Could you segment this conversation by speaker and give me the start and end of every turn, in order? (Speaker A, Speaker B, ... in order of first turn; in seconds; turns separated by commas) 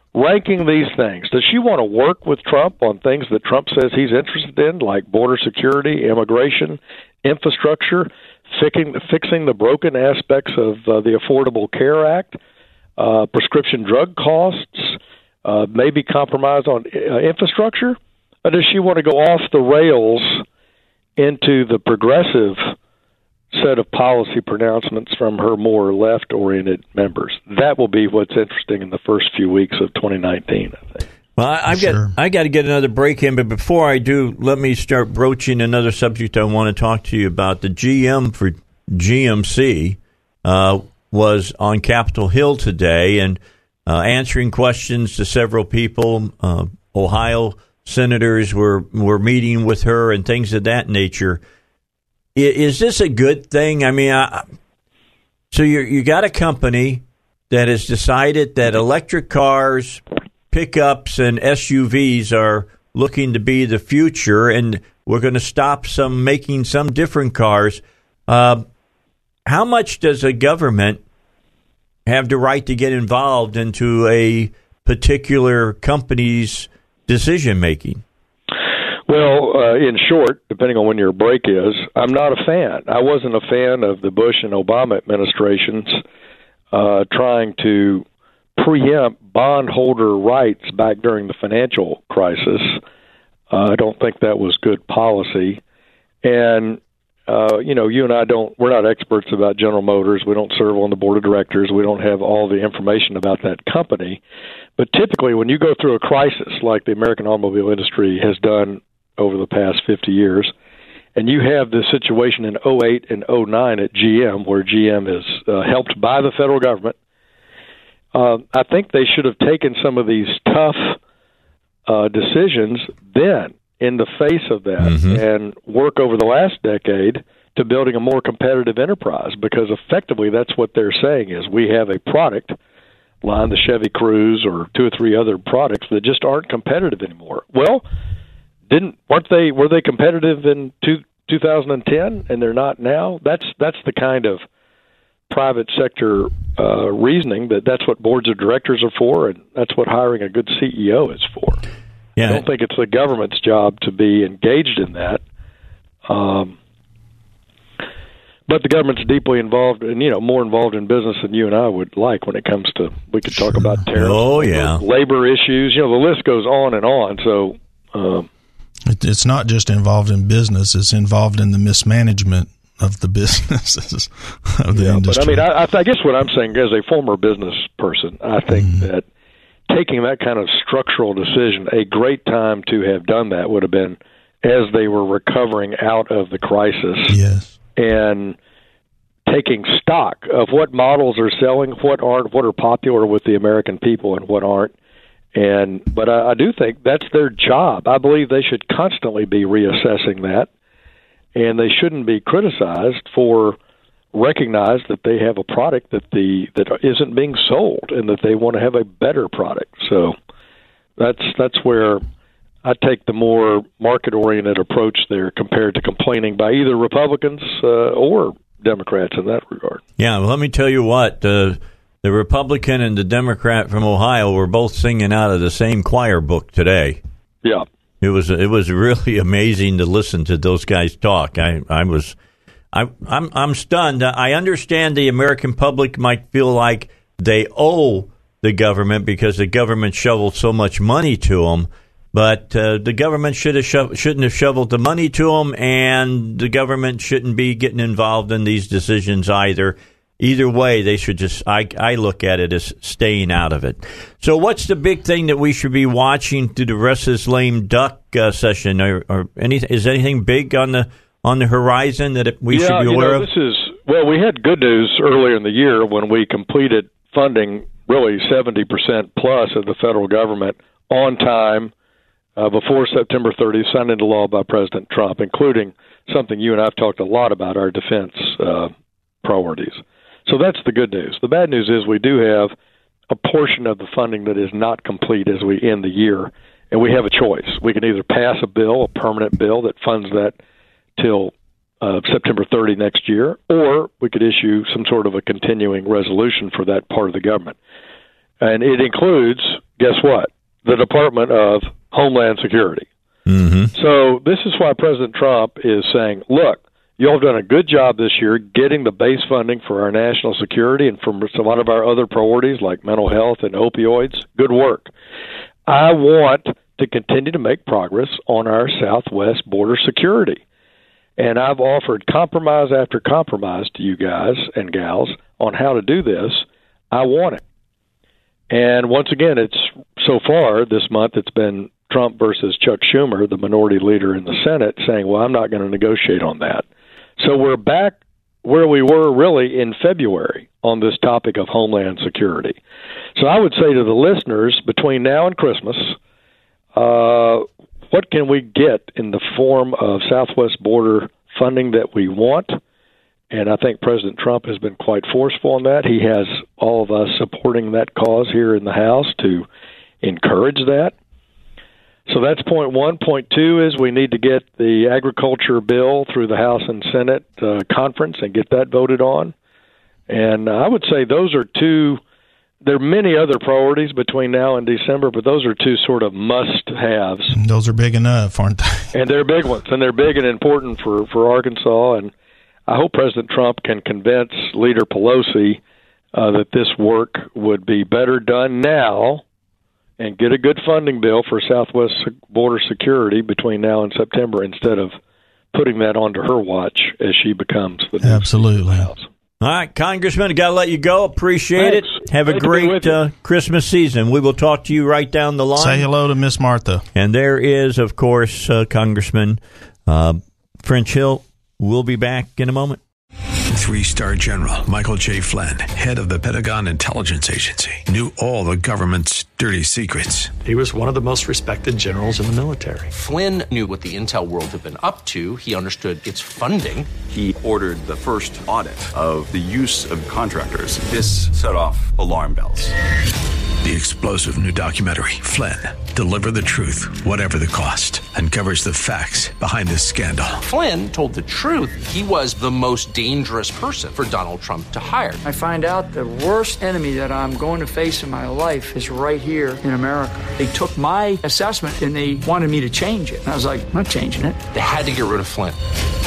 Speaker A: 0.1-12.4, Speaker A: 13.0-20.4, Speaker A: 21.2-22.7, Speaker A: 23.5-31.0, Speaker B: 31.4-51.4, Speaker C: 31.7-32.1, Speaker B: 52.4-54.4, Speaker B: 55.5-68.6, Speaker B: 69.5-71.0, Speaker B: 72.1-78.0, Speaker A: 79.1-86.0, Speaker A: 86.7-88.0, Speaker A: 88.6-92.8, Speaker A: 93.5-95.6, Speaker A: 96.2-104.2, Speaker A: 104.8-110.5, Speaker A: 111.2-117.0, Speaker A: 118.1-121.0, Speaker A: 121.9-132.6, Speaker B: 124.8-125.2, Speaker A: 133.2-137.8, Speaker A: 138.7-144.4, Speaker A: 145.3-151.6, Speaker B: 152.2-152.4, Speaker A: 152.2-155.2, Speaker A: 156.1-156.6, Speaker A: 158.5-168.3, Speaker C: 163.4-163.8, Speaker B: 163.9-164.8, Speaker C: 168.9-175.5, Speaker A: 174.7-179.1, Speaker C: 178.5-178.9, Speaker A: 179.7-187.2, Speaker C: 187.1-187.5, Speaker A: 187.8-188.4, Speaker A: 189.3-194.7, Speaker A: 195.3-200.5, Speaker A: 201.3-203.6, Speaker A: 204.1-210.2, Speaker A: 211.0-212.0, Speaker A: 212.6-219.8, Speaker B: 220.0-227.0, Speaker B: 228.0-232.2, Speaker B: 232.7-263.3, Speaker A: 262.5-271.7, Speaker A: 272.4-278.7, Speaker A: 279.2-282.5, Speaker A: 283.1-290.4, Speaker A: 291.0-297.6, Speaker A: 298.4-302.9, Speaker B: 303.3-303.7, Speaker A: 303.7-314.9, Speaker A: 315.7-320.4, Speaker A: 321.2-327.4, Speaker A: 328.5-336.6, Speaker A: 337.2-342.6, Speaker A: 343.2-346.0, Speaker A: 346.8-352.6, Speaker A: 353.3-359.5, Speaker A: 360.0-360.9, Speaker A: 362.1-369.3, Speaker A: 370.1-372.0, Speaker A: 372.6-377.3, Speaker C: 377.3-378.9, Speaker A: 378.9-382.1, Speaker A: 382.7-385.6, Speaker A: 386.1-389.2, Speaker A: 390.0-394.9, Speaker A: 395.5-399.1, Speaker C: 398.0-398.9, Speaker B: 399.4-405.9, Speaker A: 401.6-403.0, Speaker C: 405.6-406.8, Speaker B: 406.9-412.8, Speaker D: 413.5-420.4, Speaker E: 420.4-422.9, Speaker F: 423.0-426.9, Speaker G: 427.1-432.7, Speaker D: 433.6-440.4, Speaker F: 440.5-445.2, Speaker H: 445.2-454.4, Speaker F: 454.6-455.6